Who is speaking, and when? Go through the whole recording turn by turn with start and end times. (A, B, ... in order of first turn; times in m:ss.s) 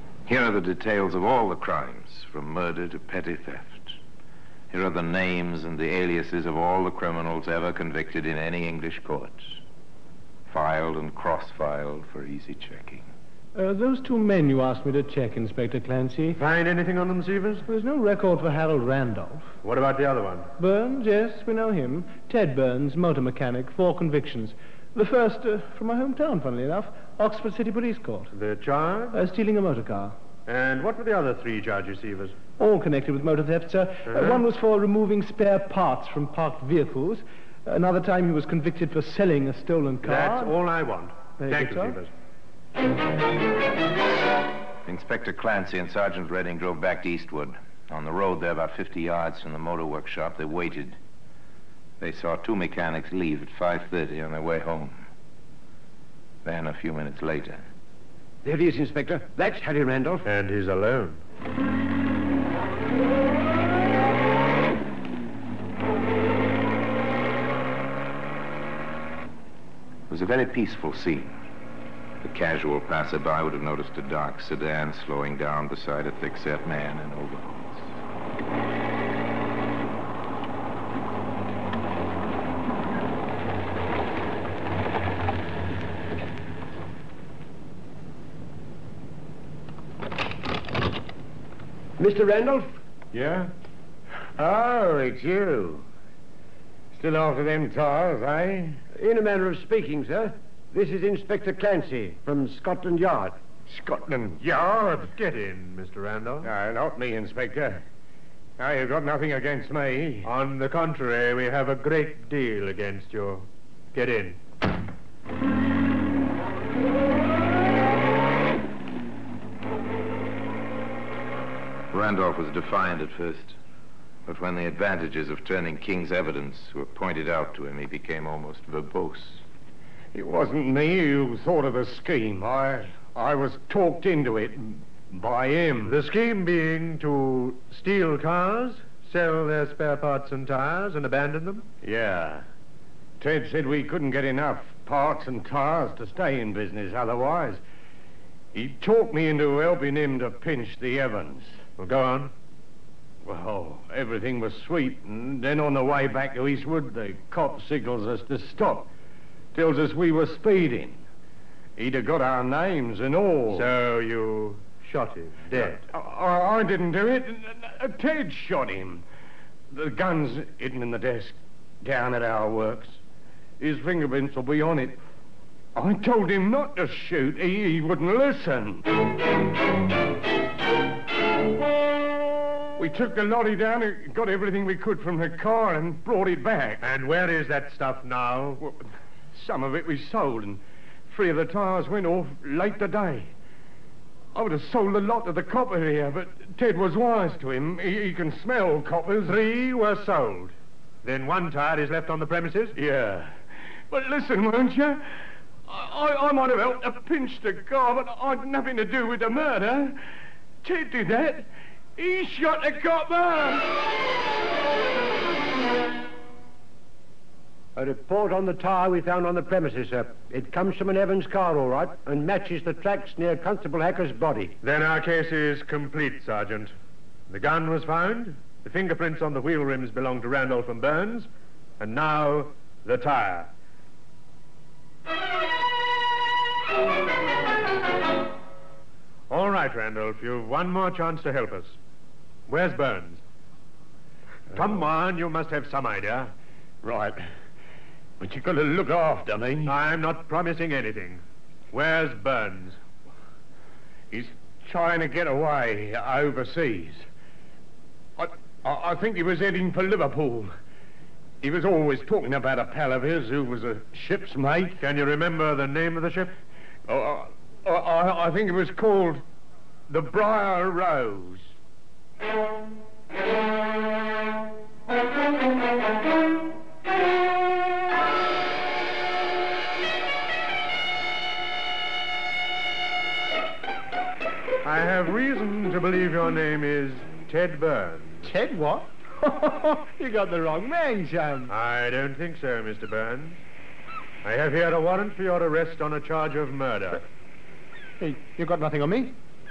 0:00.3-0:04.0 A
0:04.7-0:09.6 A
0:10.5-0:13.1 A
0:13.6-0:16.4 B
0:16.4-0:17.7 C
0:17.7-0:19.6 B
0:19.6-0:20.5 C
0:20.6-0:28.3 B
0:28.3-0:29.2 C
0:29.1-0:30.2 B
0:30.5-0:32.4 C
0:32.6-0:40.6 B
0:34.1-0:34.4 C
0:40.0-0:42.1 C
0:41.4-0:42.0 B
0:44.9-0:51.0 A
0:52.0-0:55.0 A
0:56.4-0:57.6 A
0:58.4-1:00.3 D
1:00.2-1:01.2 C
1:10.1-1:11.3 A
1:12.2-1:17.9 A
1:32.0-1:32.7 D
1:33.1-1:33.5 E
1:34.2-1:35.9 E
1:36.9-1:38.8 E
1:39.0-1:43.4 D
1:43.7-1:45.1 E
1:44.4-1:46.5 C
1:46.4-1:47.8 E
1:48.6-1:50.3 E
1:50.2-1:54.4 C
2:01.9-2:03.6 A
2:04.3-2:09.4 A
2:10.1-2:16.0 E
2:15.9-2:21.7 C
2:21.8-2:22.4 E
2:23.2-2:27.6 E
2:28.5-2:31.6 E
2:31.8-2:32.3 C
2:33.2-2:38.9 E
2:39.5-2:41.0 E
2:41.8-2:43.7 E
2:43.5-2:45.8 C
2:45.5-2:49.0 E
2:49.7-2:53.0 E
2:53.6-2:55.0 E
2:55.8-2:58.9 E
3:02.8-3:06.8 E
3:06.8-3:08.6 C
3:08.6-3:13.3 E
3:14.3-3:19.4 E
3:19.2-3:22.8 C
3:22.8-3:23.4 E
3:23.9-3:30.0 E
3:30.6-3:33.8 E
3:37.8-3:44.6 D
3:44.6-3:46.7 C
3:47.3-3:53.5 C
3:59.3-4:01.8 C
4:02.5-4:03.2 C
4:04.5-4:06.3 C
4:06.8-4:07.2 E
4:08.2-4:09.8 E
4:09.7-4:12.8 C
4:14.1-4:17.1 E
4:18.2-4:20.5 E
4:21.4-4:24.8 E
4:24.8-4:26.4 C
4:26.9-4:29.2 E
4:29.9-4:31.6 E
4:44.6-4:48.2 C
4:48.2-4:51.5 B
4:51.5-4:53.4 C
4:54.2-4:57.0 C
4:58.0-4:59.2 B